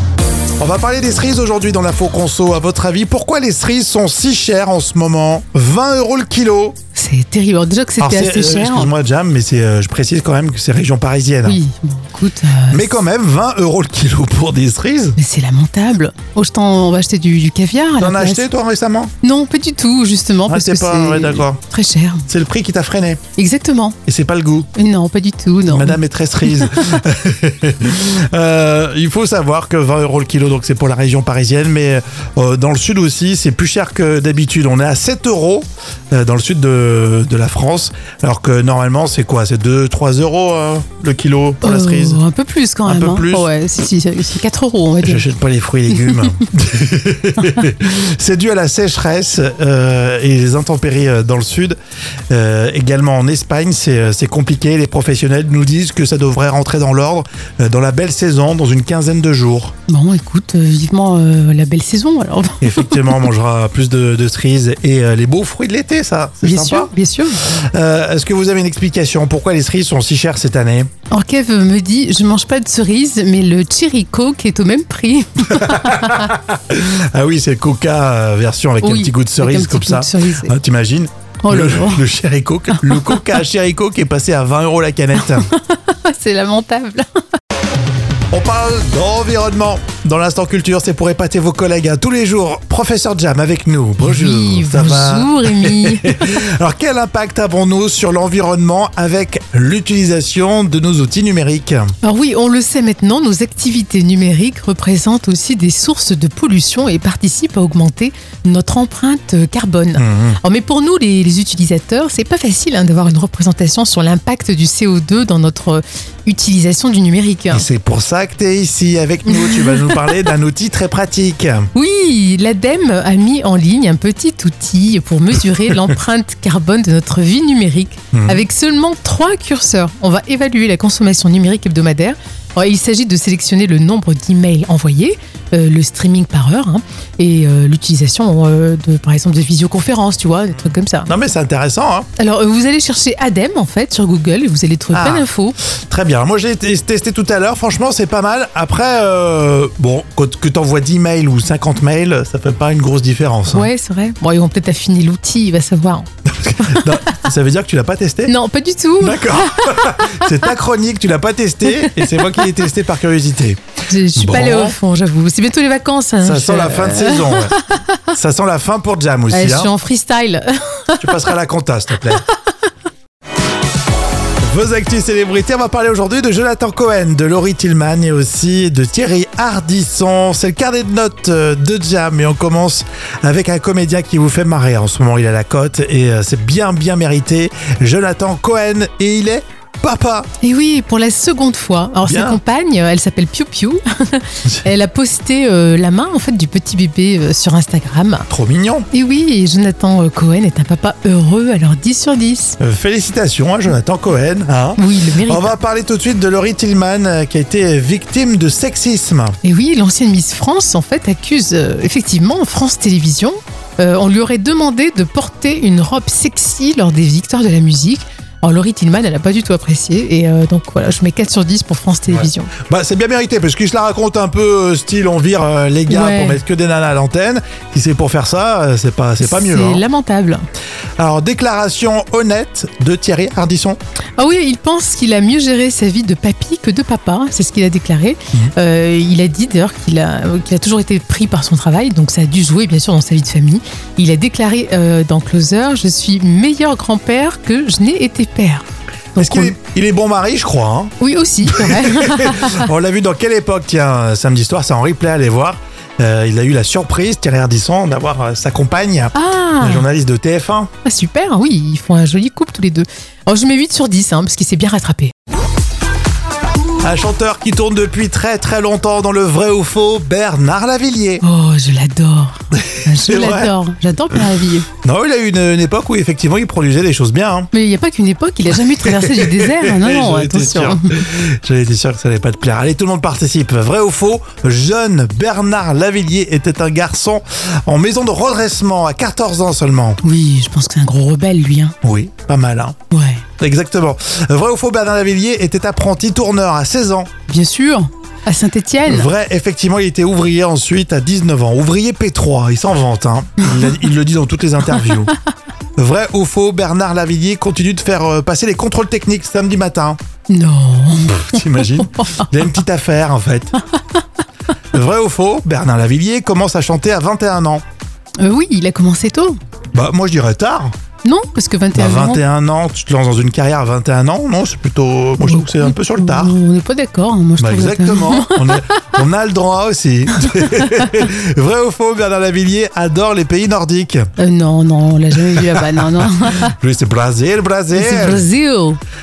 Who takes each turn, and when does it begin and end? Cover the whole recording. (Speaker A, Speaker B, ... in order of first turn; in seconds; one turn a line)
Speaker A: 0.6-6.8
Speaker B: 6.9-8.9
Speaker A: 8.0-11.6
Speaker B: 11.4-12.9
Speaker A: 12.7-15.2
Speaker B: 15.2-18.4
Speaker A: 18.0-19.1
Speaker B: 19.2-22.3
Speaker A: 20.5-21.6
Speaker A: 22.3-23.2
Speaker B: 23.4-24.0
Speaker A: 24.1-24.7
Speaker B: 24.7-26.0
Speaker A: 25.7-42.2
Speaker B: 41.6-45.3
Speaker A: 42.9-43.5
Speaker A: 45.0-51.8
Speaker A: 52.3-59.7
Speaker B: 59.9-63.3
Speaker A: 62.6-66.9
Speaker B: 66.4-67.4
Speaker A: 67.5-70.9
Speaker B: 71.1-76.2
Speaker A: 75.4-85.5
Speaker B: 78.8-80.5
Speaker B: 81.4-82.0
Speaker B: 82.8-83.1
Speaker B: 85.2-87.0
Speaker A: 88.3-101.9
Speaker B: 94.0-96.2
Speaker B: 102.0-117.7
Speaker A: 110.0-110.4
Speaker A: 117.5-121.7
Speaker B: 119.3-120.1
Speaker B: 121.7-141.1
Speaker A: 128.1-128.4
Speaker A: 141.1-142.1
Speaker B: 142.2-145.6
Speaker A: 144.9-145.3
Speaker A: 145.9-153.7
Speaker B: 153.5-156.1
Speaker A: 156.3-158.3
Speaker B: 156.7-156.9
Speaker B: 158.3-160.2
Speaker A: 159.0-163.6
Speaker B: 161.7-162.2
Speaker B: 163.9-167.7
Speaker A: 164.1-164.8
Speaker A: 166.2-167.6
Speaker A: 168.1-169.7
Speaker B: 169.3-171.2
Speaker A: 171.0-172.2
Speaker A: 174.4-190.3
Speaker B: 190.4-198.3
Speaker A: 192.0-192.4
Speaker A: 198.3-198.9
Speaker B: 198.9-202.6
Speaker A: 202.6-209.3
Speaker B: 204.8-205.5
Speaker B: 209.4-222.5
Speaker A: 222.1-229.8
Speaker B: 225.9-226.4
Speaker B: 229.2-230.4
Speaker A: 231.0-233.8
Speaker B: 234.2-249.6
Speaker A: 249.2-250.9
Speaker B: 251.0-252.7
Speaker A: 251.4-260.7
Speaker B: 259.1-259.8
Speaker B: 260.8-265.1
Speaker A: 266.8-271.2
Speaker B: 271.2-274.7
Speaker A: 272.7-273.5
Speaker A: 274.8-277.5
Speaker B: 277.5-280.9
Speaker A: 278.8-290.0
Speaker B: 290.0-291.7
Speaker A: 291.8-292.8
Speaker B: 292.9-293.2
Speaker A: 293.4-297.1
Speaker B: 297.3-299.1
Speaker A: 298.9-305.1
Speaker A: 305.8-310.0
Speaker B: 310.3-312.5
Speaker A: 311.1-313.5
Speaker A: 314.7-317.6
Speaker B: 318.2-319.4
Speaker A: 319.7-320.7
Speaker B: 321.0-322.2
Speaker A: 321.7-326.3
Speaker B: 325.2-328.8
Speaker A: 327.4-334.1
Speaker B: 334.2-336.5
Speaker A: 335.3-338.2
Speaker B: 337.7-338.8